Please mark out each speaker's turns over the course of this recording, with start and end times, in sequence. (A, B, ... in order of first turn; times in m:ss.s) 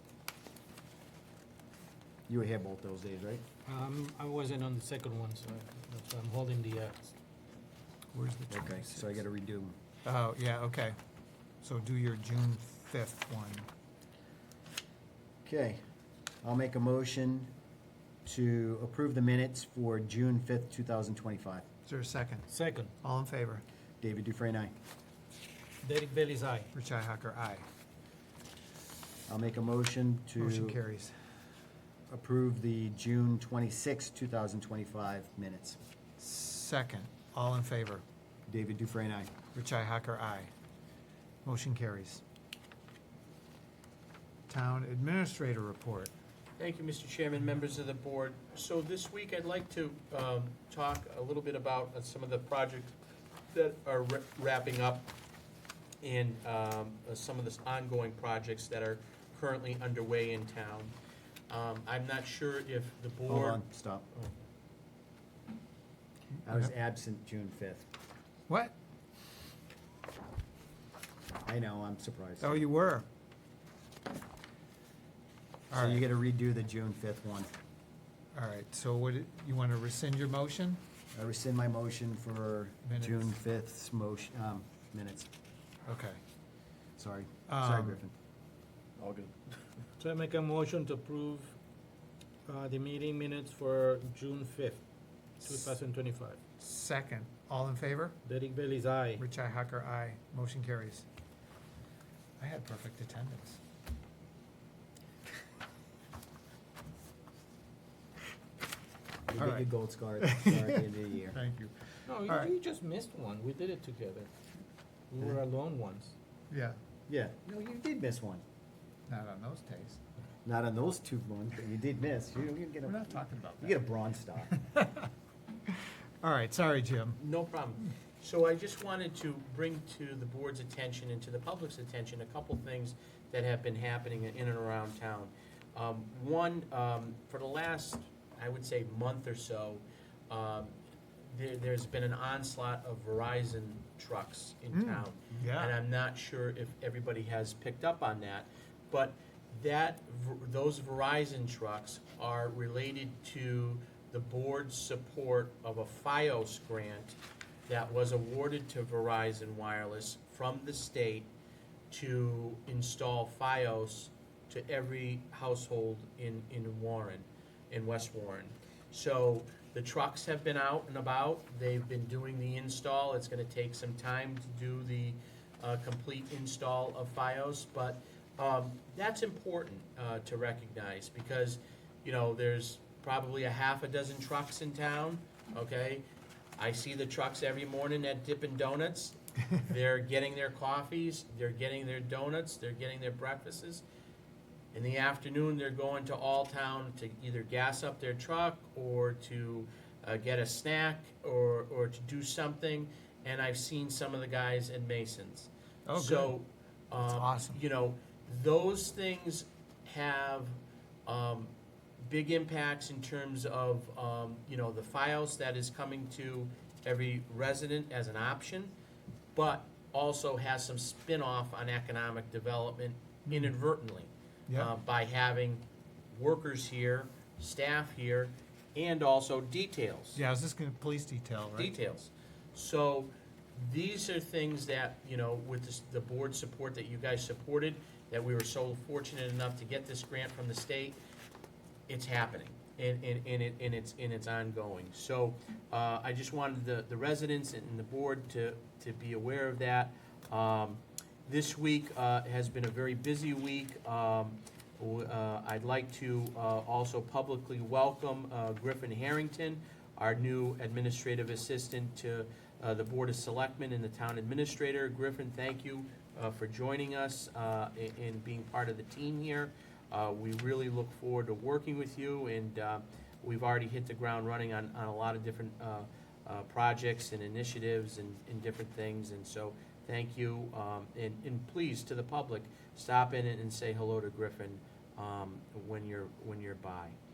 0:02.3-0:03.4 A
0:03.7-0:07.1 B
0:08.1-0:09.2 C
0:08.5-0:09.8 A
0:10.0-0:11.0 C
0:11.6-0:13.7 C
0:15.4-0:15.8 A
0:16.4-0:17.5 A
0:18.2-0:21.7 A
0:21.9-0:22.5 C
0:22.5-0:22.9 B
0:23.0-0:23.6 C
0:24.0-0:24.7 A
0:25.8-0:26.7 B
0:26.7-0:27.6 C
0:29.3-0:30.8 A
0:30.4-0:31.2 C
0:32.1-0:35.8 A
0:36.2-0:38.0 C
0:38.5-0:39.3 A
0:39.5-0:40.5 C
0:41.4-0:42.2 C
0:44.5-0:46.1 C
0:46.6-0:53.0 D
0:53.5-0:55.1 D
0:56.0-1:00.9 D
1:01.5-1:03.6 D
1:03.3-1:04.1 A
1:06.4-1:07.9 A
1:08.5-1:08.8 C
1:11.4-1:12.6 A
1:12.4-1:13.1 C
1:15.7-1:16.0 C
1:15.8-1:17.5 A
1:18.3-1:20.8 C
1:21.1-1:25.3 A
1:22.8-1:23.3 C
1:25.9-1:26.2 C
1:27.0-1:28.1 A
1:27.5-1:28.0 C
1:30.0-1:31.6 B
1:32.5-1:34.8 B
1:35.4-1:36.4 B
1:36.6-1:38.2 C
1:38.2-1:39.2 B
1:39.2-1:41.1 C
1:42.4-1:43.6 C
1:49.3-1:51.4 A
1:49.4-1:49.7 C
1:50.2-1:50.8 C
1:51.3-1:52.5 C
1:52.1-1:54.3 B
1:55.1-1:56.2 B
1:56.5-1:56.8 C
1:57.1-1:58.4 A
1:59.1-2:00.0 C
2:00.4-2:03.1 A
2:02.9-2:03.8 C
2:03.6-2:04.5 A
2:04.5-2:05.1 C
2:05.7-2:07.2 C
2:07.2-2:20.8 D
2:21.3-2:37.2 D
2:24.7-2:25.7 C
2:37.7-2:41.3 D
2:41.9-3:06.0 D
3:06.6-3:13.8 D
3:14.7-3:31.5 D
3:25.9-3:26.3 C
3:27.0-3:27.6 C
3:32.0-3:38.7 D
3:39.4-3:50.2 D
3:43.3-3:43.5 C
3:50.2-3:51.7 C
3:51.6-4:01.0 D
4:01.9-4:47.0 D